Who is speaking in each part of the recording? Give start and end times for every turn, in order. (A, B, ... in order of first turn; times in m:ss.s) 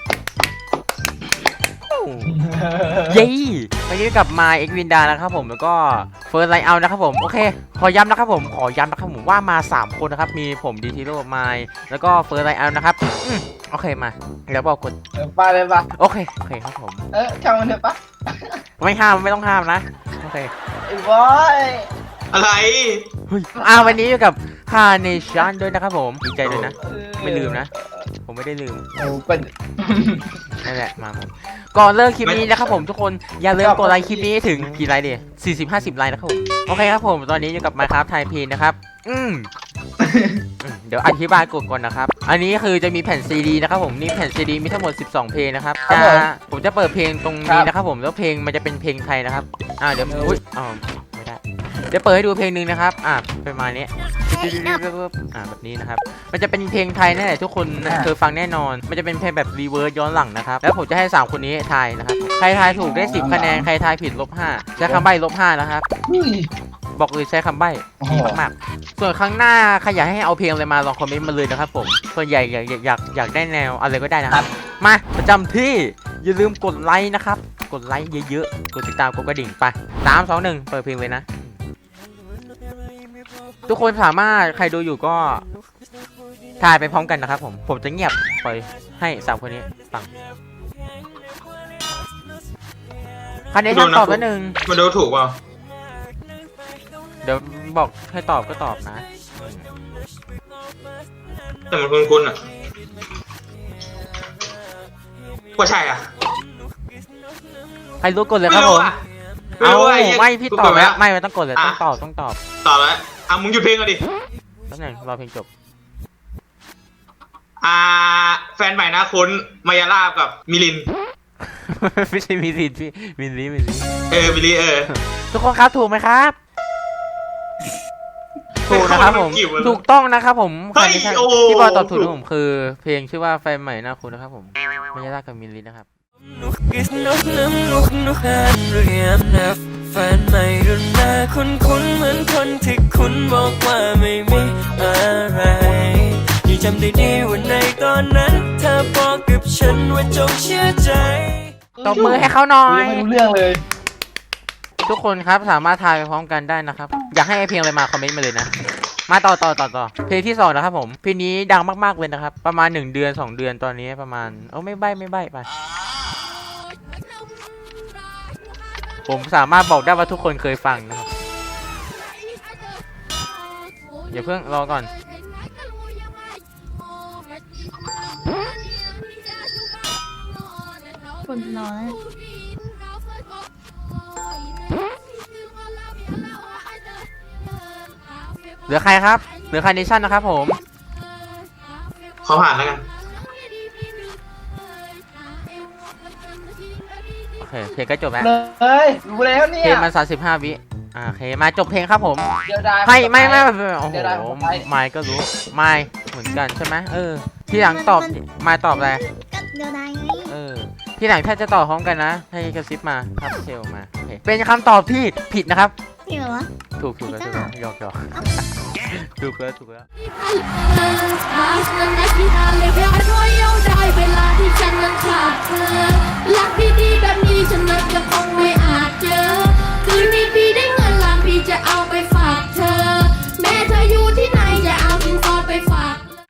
0:01.9-0:02.4 A
0:02.3-0:03.2 B
0:03.0-0:15.0 A
0:15.2-0:15.9 B
0:15.9-0:17.1 A
0:17.1-0:18.6 B
0:18.8-0:20.5 A
0:20.9-0:21.9 B
0:22.3-0:23.1 C
0:23.3-0:27.7 A
0:23.6-0:24.0 B
0:26.4-0:26.8 C
0:26.8-0:28.0 B
0:28.2-0:28.8 A
0:29.0-0:30.4 B
0:30.6-0:39.5 A
0:32.2-0:32.5 C
0:33.6-0:34.3 B
0:40.0-0:40.4 B
0:40.6-1:05.8 A
0:45.9-0:46.3 B
0:47.5-0:47.7 B
0:54.3-0:54.8 D
1:02.7-1:03.7 B
1:06.1-1:06.5 B
1:07.0-1:21.5 A
1:08.0-1:08.4 B
1:23.7-1:25.4 A
1:26.6-1:30.1 A
1:33.5-1:34.6 A
1:33.7-1:35.4 C
1:37.2-1:39.6 A
1:41.7-1:42.4 C
1:45.6-1:46.1 C
1:48.0-1:48.9 A
1:48.5-1:49.0 C
1:49.6-1:51.0 C
1:49.6-1:52.4 A
1:51.6-1:51.8 C
1:52.6-1:54.0 C
1:54.7-1:55.5 A
1:57.6-2:00.9 C
2:01.4-2:03.9 A
2:04.1-2:04.9 C
2:04.9-2:06.4 A
2:08.6-2:15.9 A
2:08.7-2:09.8 C
2:10.8-2:12.1 C
2:16.4-2:31.5 E
2:31.8-2:33.6 B
2:31.8-2:33.1 A
2:34.8-2:38.5 A
2:39.1-2:45.5 A
2:49.1-2:51.1 A
2:52.1-2:52.7 F
2:54.1-2:54.9 A
2:55.2-2:57.9 F
2:59.2-2:59.7 F
3:00.6-3:01.3 F
3:01.2-3:02.0 D
3:01.8-3:03.4 F
3:04.2-3:07.0 F
3:08.7-3:10.6 A
3:12.2-3:12.9 C
3:13.6-3:14.2 F
3:14.8-3:15.8 F
3:16.4-3:16.9 F
3:17.4-3:18.3 A
3:18.2-3:19.9 B
3:19.6-3:22.3 A
3:22.5-3:24.7 B
3:22.8-3:29.0 A
3:27.5-3:30.4 D
3:30.3-3:35.7 A
3:36.1-3:36.5 D
3:36.8-3:39.9 A
3:37.0-3:37.5 D
3:40.0-3:56.2 F